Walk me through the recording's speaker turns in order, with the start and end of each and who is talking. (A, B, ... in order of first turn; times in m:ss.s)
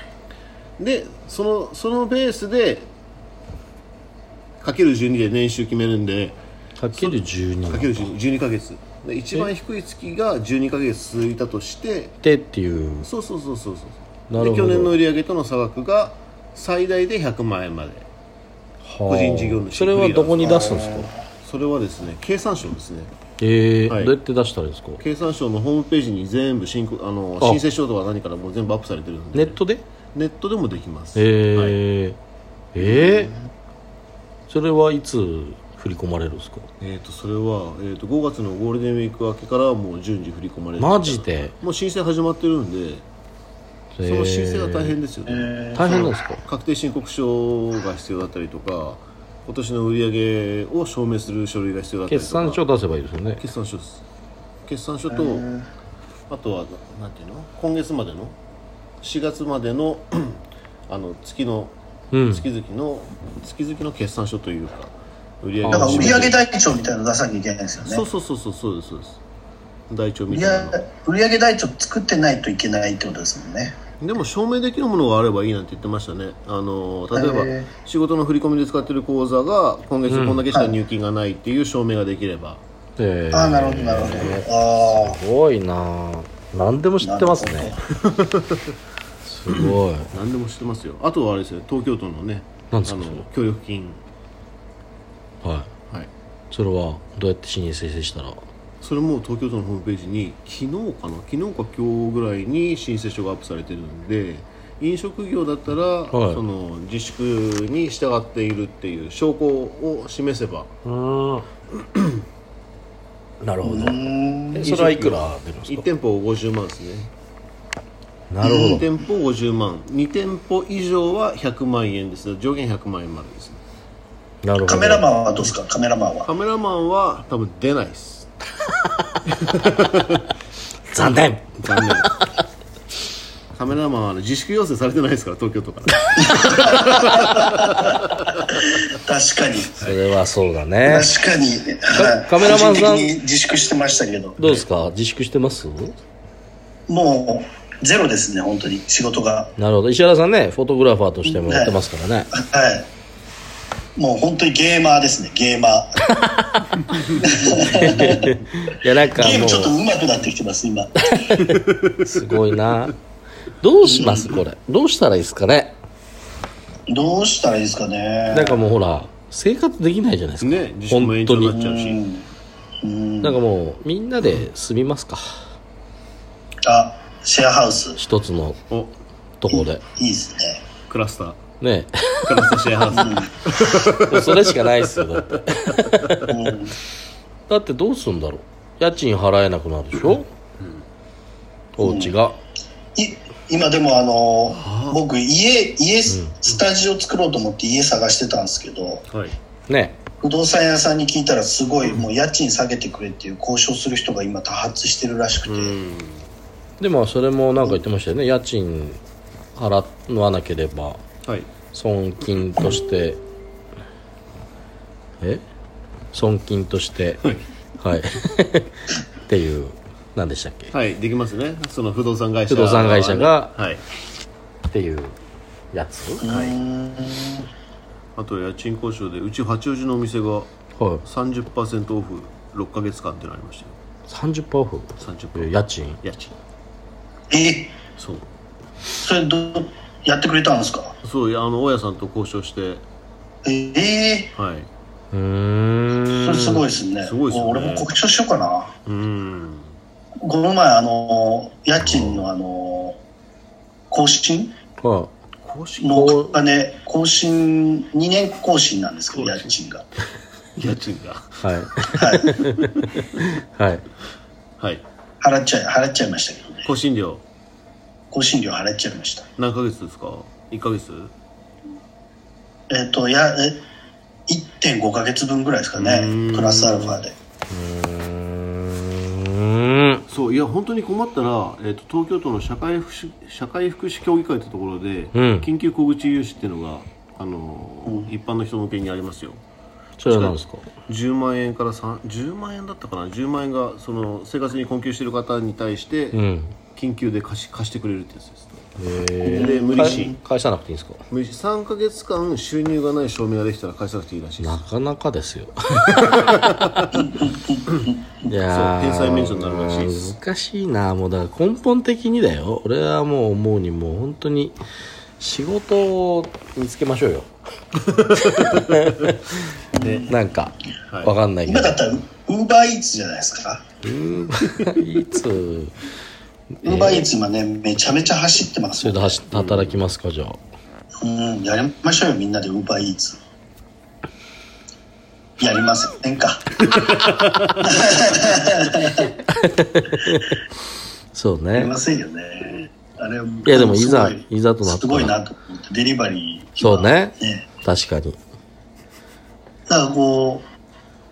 0:00.8-0:02.9 A
0:04.6-0:06.4 A
0:06.8-0:08.1 B
0:06.9-0:12.2 A
0:12.2-0:13.1 B
0:13.0-0:18.1 A
0:14.3-0:15.0 B
0:18.8-0:21.1 B
0:19.1-0:20.7 A
0:20.4-0:21.2 C
0:21.4-0:23.1 A
0:23.4-0:25.0 B
0:23.9-0:24.2 A
0:25.0-0:29.6 A
0:29.3-0:29.8 B
0:30.1-0:31.8 A
0:31.2-0:32.2 B
0:32.8-0:33.3 B
0:32.8-0:33.4 A
0:34.5-0:36.7 B
0:36.8-0:43.0 A
0:40.8-0:41.5 B
0:44.0-0:45.0 B
0:44.0-0:52.6 A
0:45.3-0:46.0 C
0:45.7-0:46.4 B
0:52.1-0:53.4 B
0:53.4-0:54.0 A
0:54.7-0:55.5 A
0:55.1-0:55.7 C
0:56.3-0:58.3 A
0:59.0-1:01.7 A
1:02.1-1:02.4 B
1:02.3-1:04.9 A
1:05.4-1:06.4 A
1:05.6-1:06.3 B
1:05.7-1:08.0 C
1:07.8-1:09.2 A
1:09.9-1:10.8 A
1:10.3-1:13.8 C
1:14.0-1:22.6 A
1:17.1-1:17.7 C
1:20.1-1:20.4 B
1:20.5-1:20.8 C
1:23.0-1:27.8 B
1:23.3-1:25.2 C
1:27.0-1:27.8 C
1:28.0-1:28.7 A
1:29.3-1:30.1 B
1:29.5-1:34.0 A
1:32.7-1:33.2 B
1:36.5-1:38.4 B
1:38.8-1:50.7 A
1:46.1-1:46.4 B
1:50.8-1:51.5 B
1:53.4-1:55.9 B
1:53.6-1:54.7 C
1:54.6-1:57.1 A
1:58.3-1:58.9 B
1:58.4-1:58.8 C
1:58.6-2:03.6 A
2:04.4-2:05.1 B
2:04.7-2:06.3 C
2:06.2-2:08.3 A
2:09.5-2:10.2 A
2:10.9-2:12.2 B
2:11.6-2:12.1 A
2:13.6-2:18.0 A
2:16.2-2:19.8 C
2:19.8-2:21.1 B
2:20.8-2:24.4 C
2:22.0-2:23.1 B
2:24.4-2:26.0 B
2:26.9-2:29.5 C
2:29.6-2:32.3 B
2:31.3-2:31.8 C
2:32.3-2:32.9 C
2:34.0-2:36.0 C
2:36.2-2:36.8 B
2:37.1-2:38.4 C
2:37.7-2:39.8 B
2:39.1-2:41.4 C
2:41.1-2:42.9 B
2:41.7-2:42.0 A
2:43.6-2:45.8 B
2:43.8-2:44.3 C
2:46.9-2:48.6 C
2:48.3-2:51.6 B
2:50.4-2:52.0 A
2:51.4-2:52.3 C
2:52.8-2:53.4 C
2:53.2-2:55.4 B
2:56.6-2:58.0 C
2:58.0-2:58.6 B
2:58.7-2:59.0 A
2:59.4-2:59.8 B
2:59.5-3:00.7 C
3:00.9-3:01.4 A
3:01.6-3:02.3 B
3:02.2-3:04.9 A
3:02.9-3:03.3 C
3:03.7-3:06.4 B
3:06.3-3:06.7 C
3:07.5-3:10.3 B
3:11.8-3:12.4 B
3:11.8-3:12.2 C
3:13.0-3:19.0 C
3:14.5-3:15.0 A
3:16.1-3:16.3 B
3:19.1-3:19.4 A
3:19.7-3:20.0 B
3:20.2-3:25.8 C
3:25.4-3:26.3 A
3:26.8-3:29.0 B
3:29.6-3:31.0 B
3:31.7-3:33.2 B
3:36.1-3:37.3 B
3:37.8-3:38.7 B
3:39.3-3:40.7 B
3:40.7-3:43.8 A
3:42.5-3:43.5 B
3:44.7-3:45.2 B
3:45.7-3:46.2 B
3:46.2-3:47.5 C
3:46.2-3:46.6 A
3:48.2-3:50.5 A
3:50.8-3:51.0 B
3:51.0-3:53.8 A
3:54.1-3:56.0 B
3:55.0-3:56.4 A
3:57.3-3:57.8 C
3:58.0-3:58.2 A
3:59.0-4:01.0 C
4:01.0-4:02.8 A
4:03.4-4:04.3 C
4:04.4-4:04.7 A
4:05.1-4:06.6 B
4:06.1-4:08.7 C
4:07.0-4:08.0 A
4:08.9-4:09.7 A
4:10.2-4:13.0 C
4:11.8-4:12.2 A
4:13.9-4:14.5 C
4:14.8-4:15.1 B
4:15.4-4:16.0 A
4:15.8-4:19.9 C
4:15.9-4:16.4 B
4:19.1-4:19.5 A
4:20.6-4:21.4 A
4:21.4-4:23.8 B
4:21.9-4:22.4 C
4:24.6-4:24.8 A
4:25.2-4:26.7 C
4:26.6-4:27.2 A
4:28.1-4:29.3 C
4:29.4-4:31.1 A
4:32.7-4:33.6 C
4:34.3-4:37.2 C
4:35.8-4:37.0 A
4:37.5-4:40.0 B
4:40.1-4:49.4 A
4:45.1-4:45.5 B
4:50.0-4:50.7 B
4:50.1-4:56.2 A
4:56.1-4:56.5 B
4:56.8-4:58.5 A
4:58.8-5:01.0 B
4:59.2-5:00.2 A
4:59.2-5:00.2 C
5:01.1-5:04.6 A
5:04.4-5:06.4 B
5:06.2-5:06.9 A
5:07.0-5:08.3 C
5:08.3-5:14.6 B
5:08.5-5:10.0 A
5:15.2-5:17.3 B
5:17.9-5:18.6 A
5:18.1-5:19.2 B
5:19.8-5:20.2 C
5:19.8-5:20.1 A
5:20.1-5:21.8 B
5:21.5-5:23.6 C
5:23.8-5:25.8 B
5:26.6-5:27.1 B
5:26.6-5:29.2 C
5:28.8-5:30.4 B
5:29.3-5:29.8 A
5:31.0-5:33.2 C
5:35.4-5:36.7 C
5:36.7-5:37.6 A
5:37.6-5:39.1 C
5:39.0-5:40.4 B
5:41.1-5:41.7 B
5:41.6-5:47.5 C
5:43.4-5:45.1 B
5:46.6-5:48.2 B
5:49.7-5:50.4 C